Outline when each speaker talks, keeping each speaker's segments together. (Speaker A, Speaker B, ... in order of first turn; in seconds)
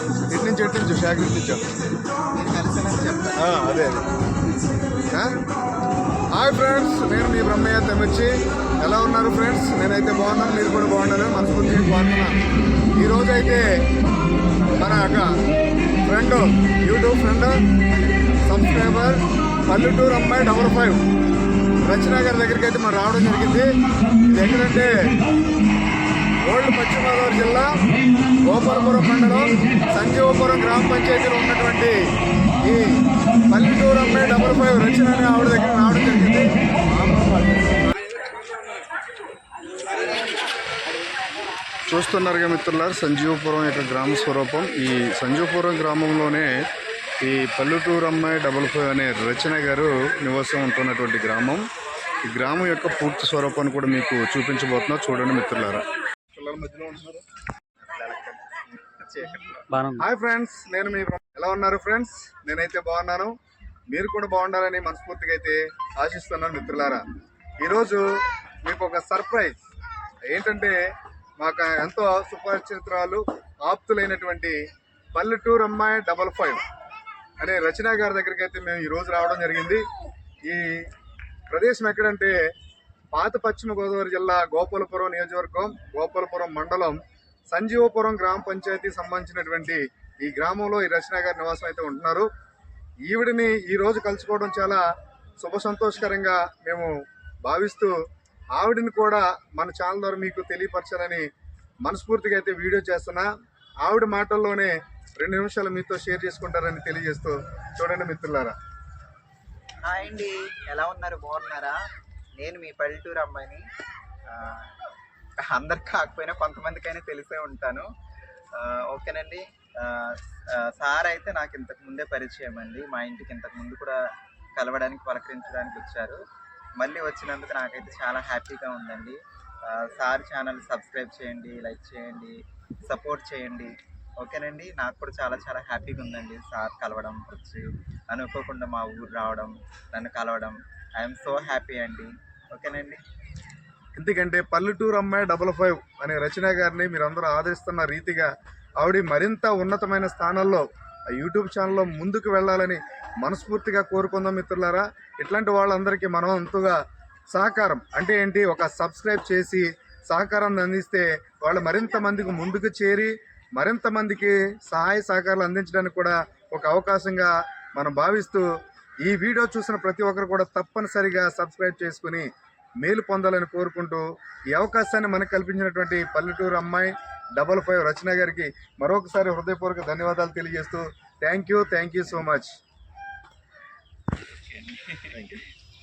Speaker A: 0.3-1.6, 3.4-4.0, 6.3-12.4, 13.0-13.7, 14.8-15.3, 16.1-17.6, 18.4-21.0, 21.9-23.7, 24.3-24.9, 26.4-27.7, 28.4-32.0, 32.6-37.7, 41.9-46.5, 47.2-51.6, 52.2-57.2, 60.0-63.3, 63.9-67.0, 67.6-68.0, 68.6-69.5, 70.3-70.8, 71.4-74.6, 75.1-76.6, 77.4-79.8, 80.5-80.9, 81.5-82.3, 83.1-87.0, 87.5-92.3, 93.1-94.8, 95.4-96.9, 97.4-97.9, 98.5-101.2, 101.8-103.3, 103.8-108.5, 143.9-156.8, 157.3-168.5, 169.0-172.3, 172.8-182.5, 185.1-185.4
Speaker B: 2.3-3.4, 57.8-59.7, 109.9-111.8, 112.4-113.6, 114.3-114.7, 115.4-117.9, 118.5-124.0, 124.6-126.2, 126.8-143.0, 184.5-185.0